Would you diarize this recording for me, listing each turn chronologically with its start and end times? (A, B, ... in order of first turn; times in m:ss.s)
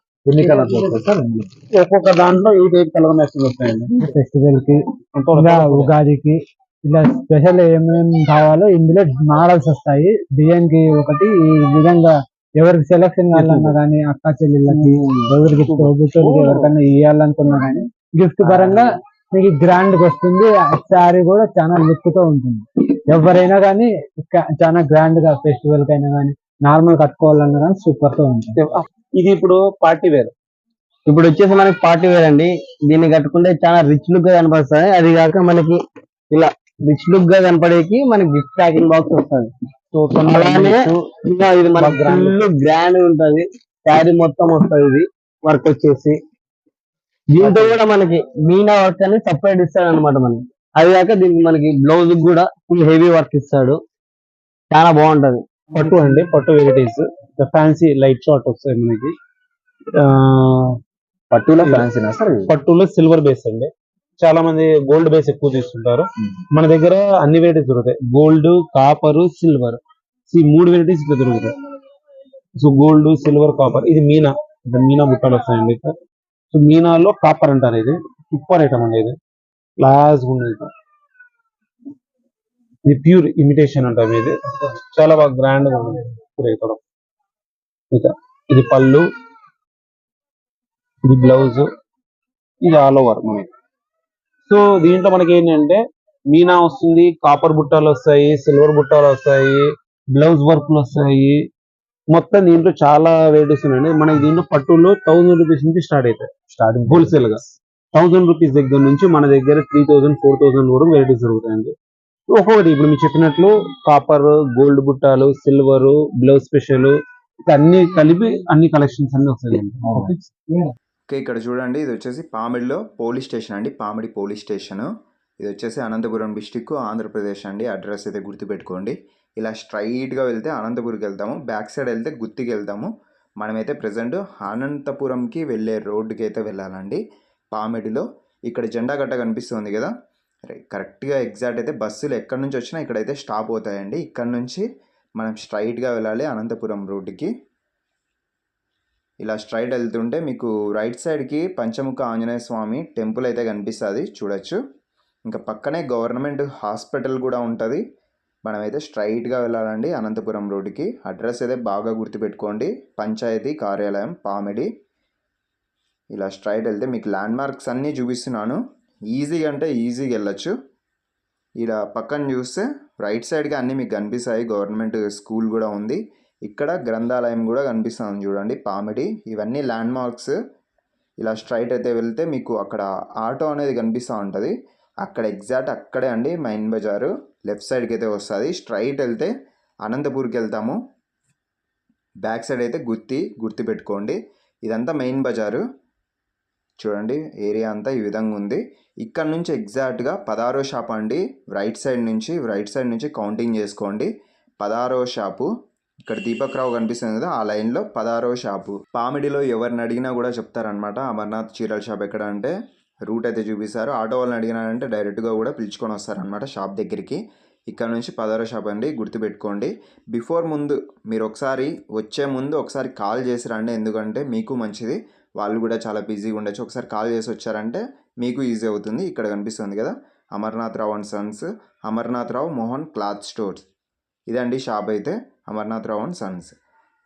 0:00.3-0:01.5 A
0:01.7-0:04.0 B
0:04.0-0:04.8 C
0:05.2-0:05.9 B
0:05.4-0:28.5 C
0:16.2-0:16.6 B
0:28.6-0:30.3 B
0:31.1-0:35.8 D
0:36.3-0:39.5 D
0:39.9-0:41.0 B
0:40.2-0:46.2 D
0:41.8-0:42.5 B
0:47.4-0:53.8 D
0:47.4-0:47.8 B
0:54.7-0:55.4 D
0:55.8-0:59.1 B
1:00.0-1:00.8 B
1:01.3-1:02.5 A
1:02.5-1:09.8 B
1:10.3-1:11.5 B
1:12.6-1:15.9 B
1:16.5-1:19.2 B
1:19.8-1:20.7 B
1:22.8-1:24.4 B
1:24.9-1:26.8 B
1:27.9-1:29.1 B
1:31.1-1:31.7 B
1:32.6-1:33.5 B
1:34.5-1:41.4 B
1:42.1-1:46.3 B
1:46.5-1:47.5 A
1:46.9-1:47.4 B
1:47.9-1:51.7 B
1:52.3-1:57.0 B
1:57.5-1:59.9 B
1:59.8-2:00.2 A
2:00.0-2:00.7 C
2:01.1-2:04.9 E
2:05.4-2:17.0 E
2:17.5-2:19.9 E
2:20.5-2:24.6 E
2:25.2-2:27.3 E
2:29.2-2:34.6 E
2:35.3-2:37.8 E
2:38.5-2:44.7 E
2:46.2-2:48.6 E
2:49.1-2:50.5 E
2:51.6-3:00.4 E
3:01.2-3:09.3 E
3:09.9-3:10.8 E
3:12.2-3:15.6 E
3:16.8-3:24.1 E
3:24.6-3:25.5 E
3:26.1-3:32.5 E
3:33.1-3:53.7 E
3:54.3-3:56.6 E